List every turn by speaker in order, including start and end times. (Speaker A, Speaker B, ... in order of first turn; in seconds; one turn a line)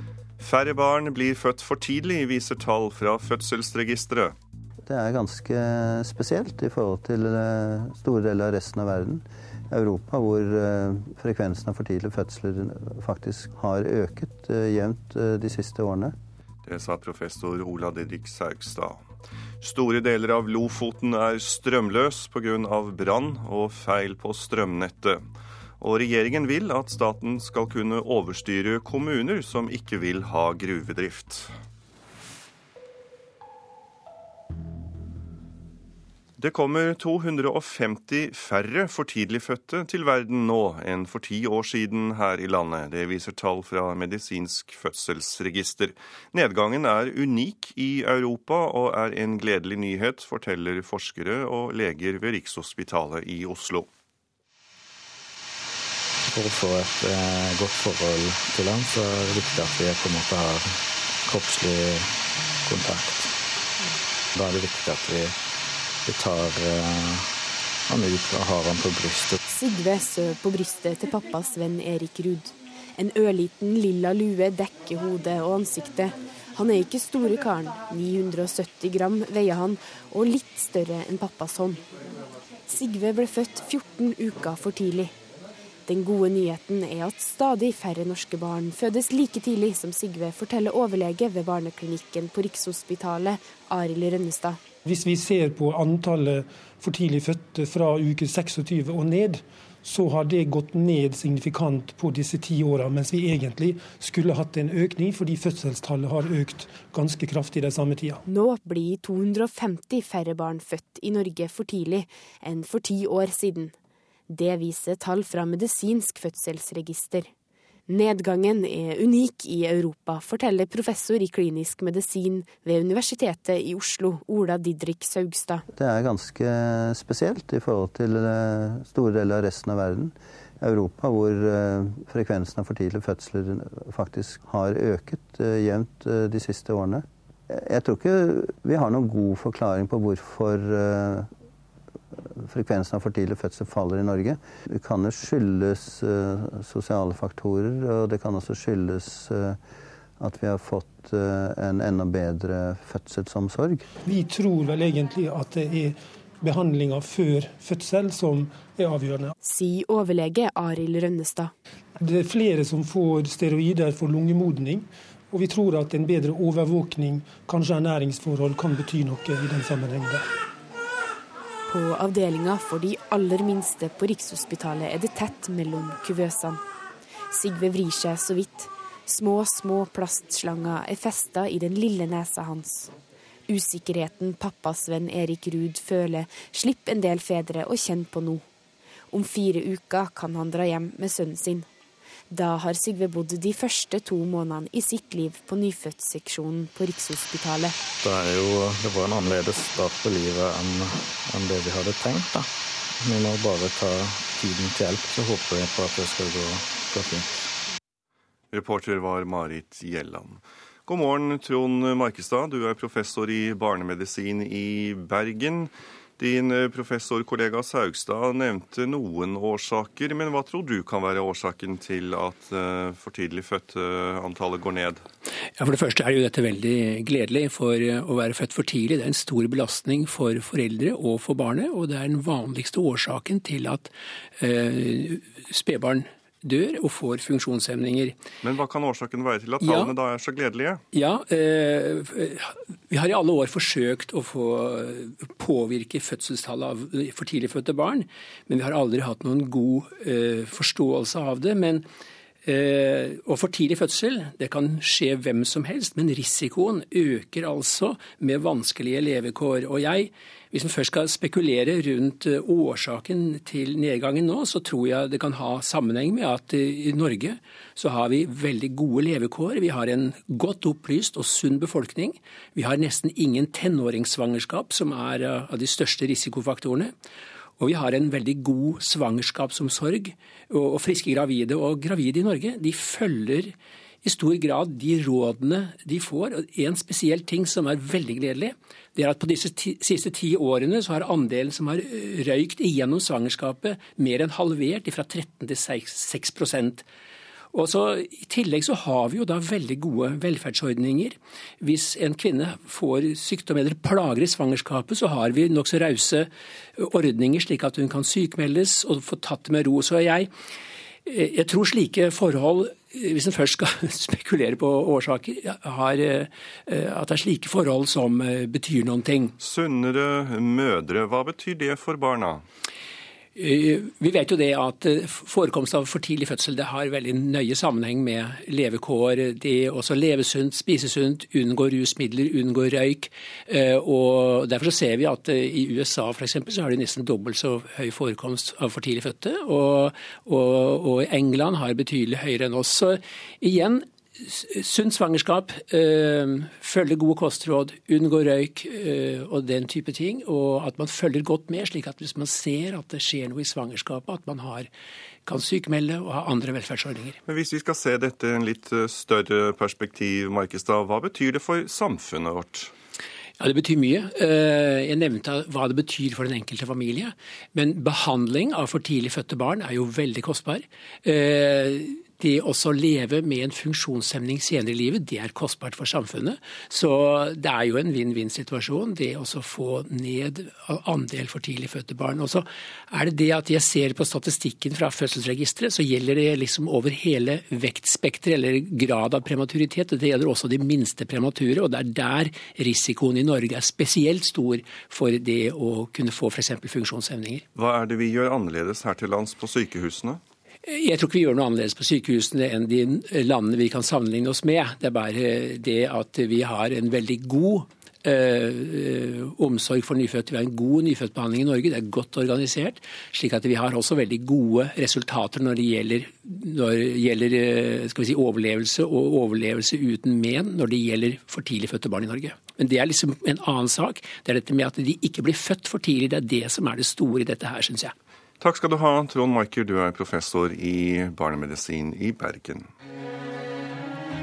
Speaker A: 0.4-4.3
Speaker B: 4.8-16.1
Speaker A: 16.6-19.0
Speaker A: 19.6-25.2
Speaker A: 25.8-31.5
Speaker A: 36.4-53.9
Speaker C: 56.3-62.1
Speaker C: 62.6-63.4
Speaker C: 64.3-65.4
Speaker C: 66.0-67.3
Speaker C: 67.9-69.4
Speaker D: 69.5-81.8
Speaker D: 82.7-85.1
Speaker D: 85.9-94.6
Speaker E: 94.8-108.2
Speaker D: 108.3-113.7
Speaker D: 114.3-117.3
Speaker D: 117.9-125.6
Speaker B: 125.7-141.3
Speaker B: 142.2-149.6
Speaker B: 150.2-153.8
Speaker E: 154.1-159.3
Speaker D: 159.4-161.5
Speaker E: 162.0-170.3
Speaker D: 171.7-176.6
Speaker D: 177.3-182.9
Speaker D: 183.5-188.4
Speaker D: 189.1-191.7
Speaker D: 192.3-197.8
Speaker C: 198.0-207.4
Speaker A: 208.5-225.0
Speaker F: 225.6-238.2
Speaker A: 238.4-240.8
Speaker F: 239.6-239.9
Speaker F: 240.9-251.9
Speaker F: 252.4-276.9
Speaker F: 277.6-296.8
Speaker F: 297.5-310.3
Speaker F: 311.0-319.3
Speaker A: 319.4-322.4
Speaker F: 323.4-354.7
Speaker F: 355.2-357.2
Speaker A: 357.2-362.7
Speaker F: 363.4-397.4
Speaker A: 397.6-400.2
Speaker F: 400.6-427.9
Speaker A: 428.4-432.7